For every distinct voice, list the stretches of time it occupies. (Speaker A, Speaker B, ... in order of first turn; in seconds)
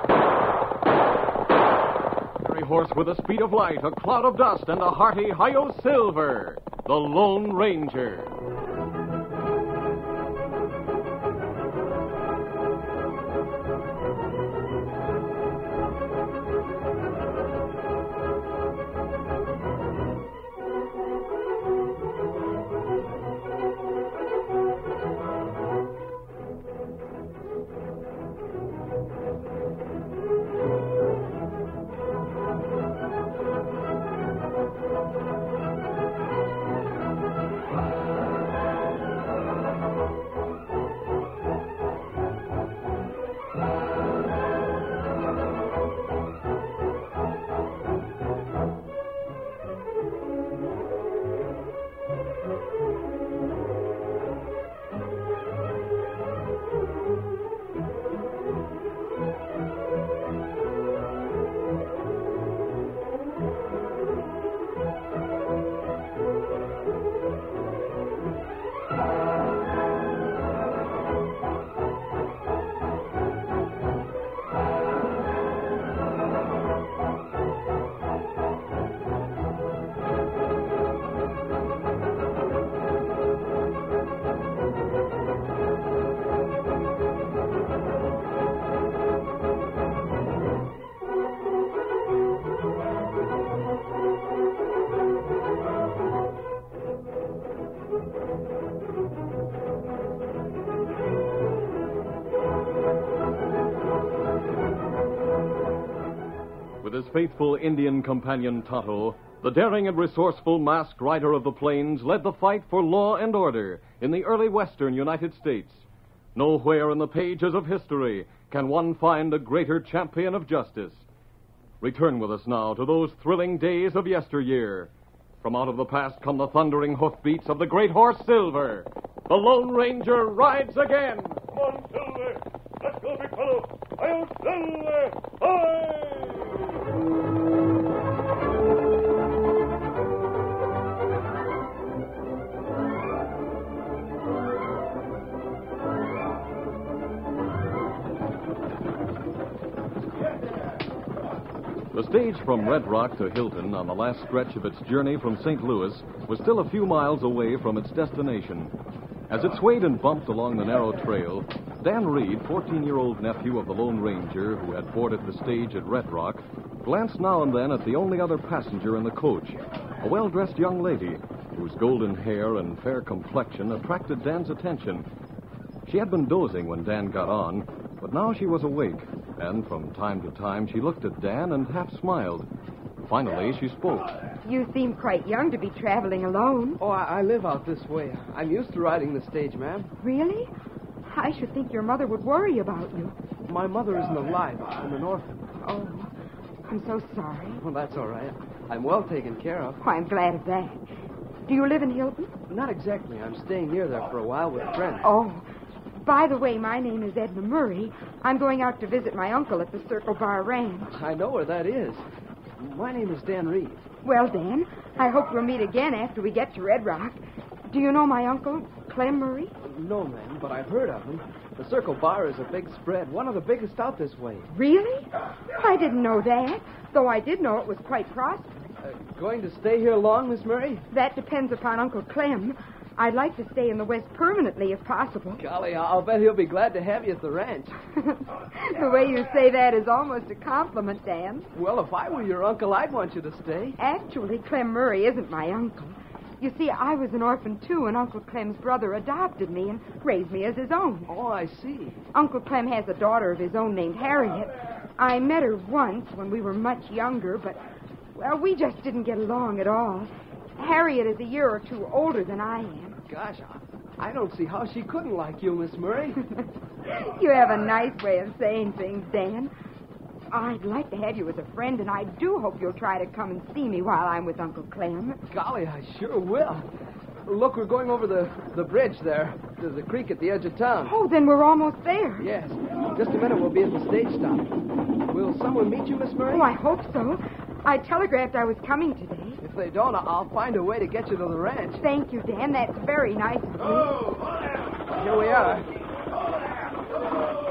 Speaker A: 2.4-8.3, 106.8-121.0, 121.8-124.9, 125.4-131.4, 151.9-158.7, 159.3-175.1, 175.9-182.5, 183.1-184.2
Speaker B: 131.5-136.8
Speaker C: 184.4-186.8, 190.0-190.5, 191.1-193.2, 195.6-196.1, 196.7-197.6, 199.8-200.8, 201.5-202.4, 205.0-211.0, 214.0-219.5, 224.5-228.6, 230.9-235.4, 238.0-241.5, 243.8-251.1, 252.1-257.6, 258.1-263.0, 266.4-269.5, 270.3-275.2, 280.8-282.3, 286.3-289.4, 291.8-294.2
Speaker D: 186.8-189.9, 193.5-195.4, 197.6-199.8, 202.5-205.1, 210.9-212.1, 212.6-213.9, 219.6-224.5, 228.8-230.9, 235.4-237.8, 241.5-243.8, 251.1-252.0, 263.1-266.2, 275.3-276.7, 277.3-280.9, 282.2-284.5, 285.1-286.5, 289.4-291.8, 294.9-295.7